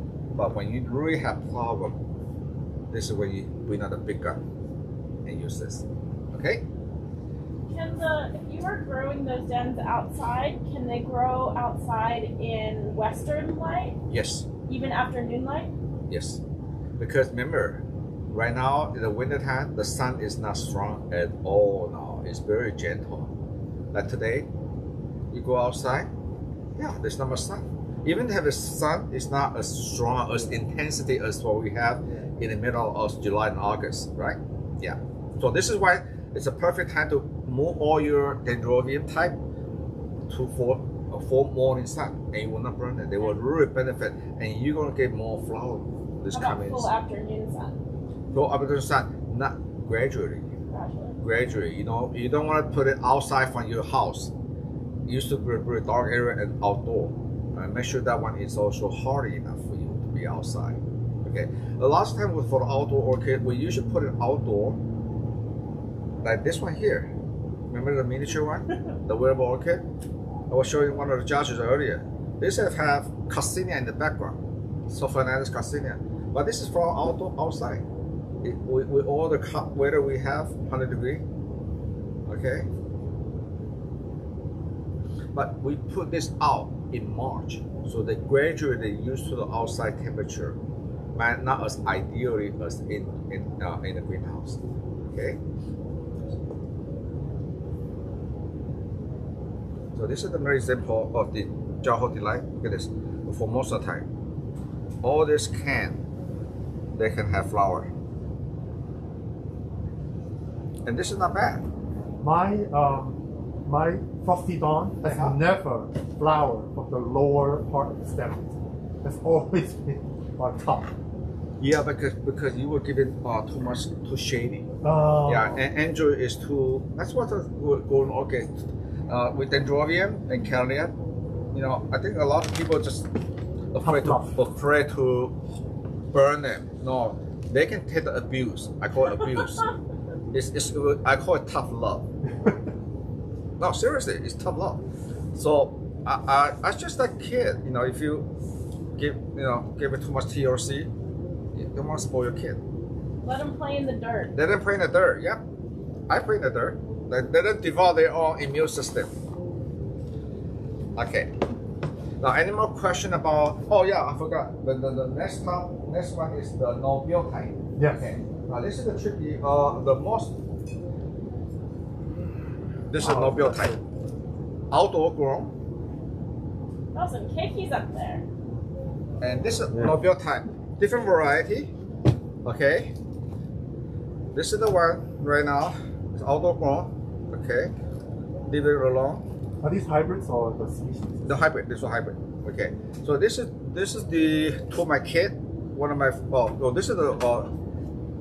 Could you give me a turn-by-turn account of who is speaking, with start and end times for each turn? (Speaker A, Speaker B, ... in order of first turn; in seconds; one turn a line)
Speaker A: 0.3-2.0
Speaker A: 2.9-4.4
Speaker A: 5.2-6.7
Speaker B: 7.7-14.0
Speaker A: 14.1-14.5
Speaker B: 14.7-15.7
Speaker A: 16.1-16.4
Speaker A: 17.0-23.3
Speaker A: 23.9-24.5
Speaker A: 25.3-26.1
Speaker A: 26.8-39.4
Speaker A: 40.3-46.9
Speaker B: 46.3-47.8
Speaker A: 48.3-50.5
Speaker B: 50.7-51.2
Speaker A: 51.2-54.3
Speaker A: 55.0-64.8
Speaker A: 66.2-67.1
Speaker A: 67.7-69.8
Speaker A: 70.5-77.8
Speaker A: 78.4-81.2
Speaker A: 82.3-82.7
Speaker A: 85.3-90.6
Speaker A: 91.1-95.4
Speaker A: 100.0-104.1
Speaker A: 105.0-106.0
Speaker A: 107.0-107.9
Speaker A: 110.9-111.7
Speaker C: 112.2-120.9
Speaker A: 115.0-115.4
Speaker A: 121.6-124.7
Speaker C: 124.8-125.6
Speaker A: 125.2-130.9
Speaker A: 131.5-133.1
Speaker A: 133.7-135.4
Speaker C: 133.8-134.3
Speaker A: 136.1-139.7
Speaker A: 140.3-142.1
Speaker C: 142.3-142.6
Speaker A: 143.6-144.8
Speaker A: 145.3-148.3
Speaker A: 149.0-150.9
Speaker A: 151.5-152.6
Speaker B: 153.2-154.3
Speaker A: 154.3-155.4
Speaker A: 156.1-159.1
Speaker A: 161.0-161.3
Speaker A: 162.2-170.4
Speaker C: 167.8-168.1
Speaker A: 172.9-173.8
Speaker C: 173.1-173.7
Speaker A: 174.7-175.5
Speaker B: 176.9-178.2
Speaker A: 179.2-181.7
Speaker A: 182.4-182.9
Speaker A: 184.3-187.7
Speaker A: 188.5-189.2
Speaker C: 189.6-191.4
Speaker A: 191.3-197.5